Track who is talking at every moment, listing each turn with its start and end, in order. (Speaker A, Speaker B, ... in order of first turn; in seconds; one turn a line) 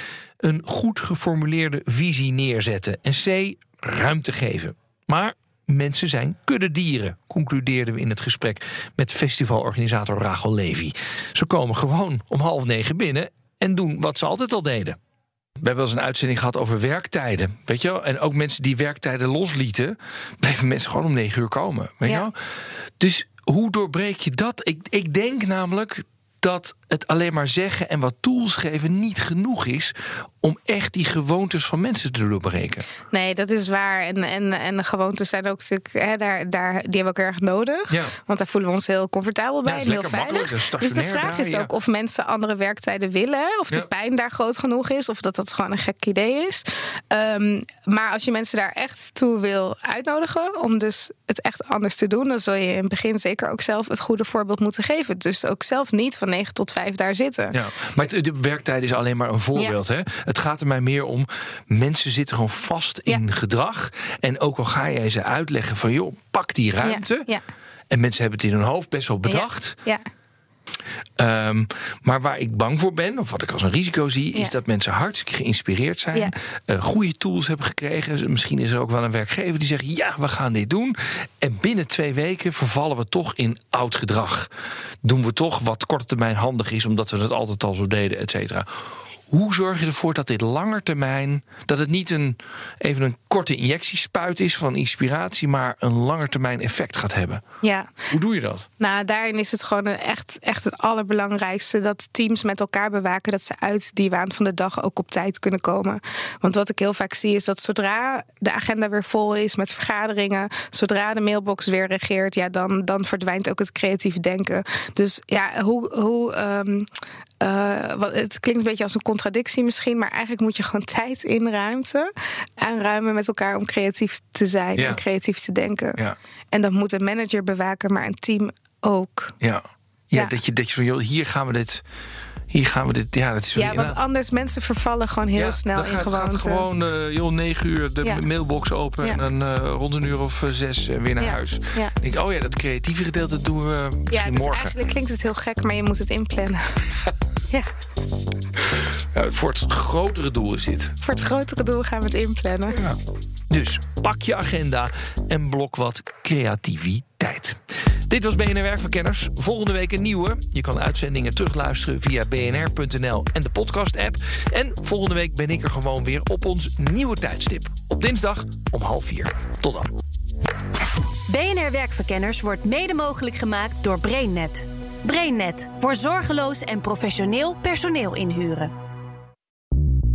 Speaker A: 0.4-15.0
Speaker A: 15.6-22.4
Speaker A: 23.0-32.9
Speaker B: 33.1-57.5
Speaker A: 39.6-41.7
Speaker A: 57.5-67.3
Speaker B: 66.8-67.4
Speaker A: 67.9-69.8
Speaker B: 69.2-70.0
Speaker A: 71.2-84.5
Speaker A: 85.0-97.4
Speaker B: 97.6-97.9
Speaker A: 98.1-98.7
Speaker B: 98.8-116.9
Speaker B: 117.4-126.0
Speaker B: 126.5-129.3
Speaker A: 129.4-131.8
Speaker A: 132.5-134.0
Speaker B: 133.6-136.7
Speaker A: 135.4-144.7
Speaker B: 141.2-141.9
Speaker B: 144.1-146.6
Speaker A: 149.1-150.9
Speaker B: 151.0-152.8
Speaker A: 152.7-153.0
Speaker A: 153.5-169.9
Speaker C: 171.3-178.7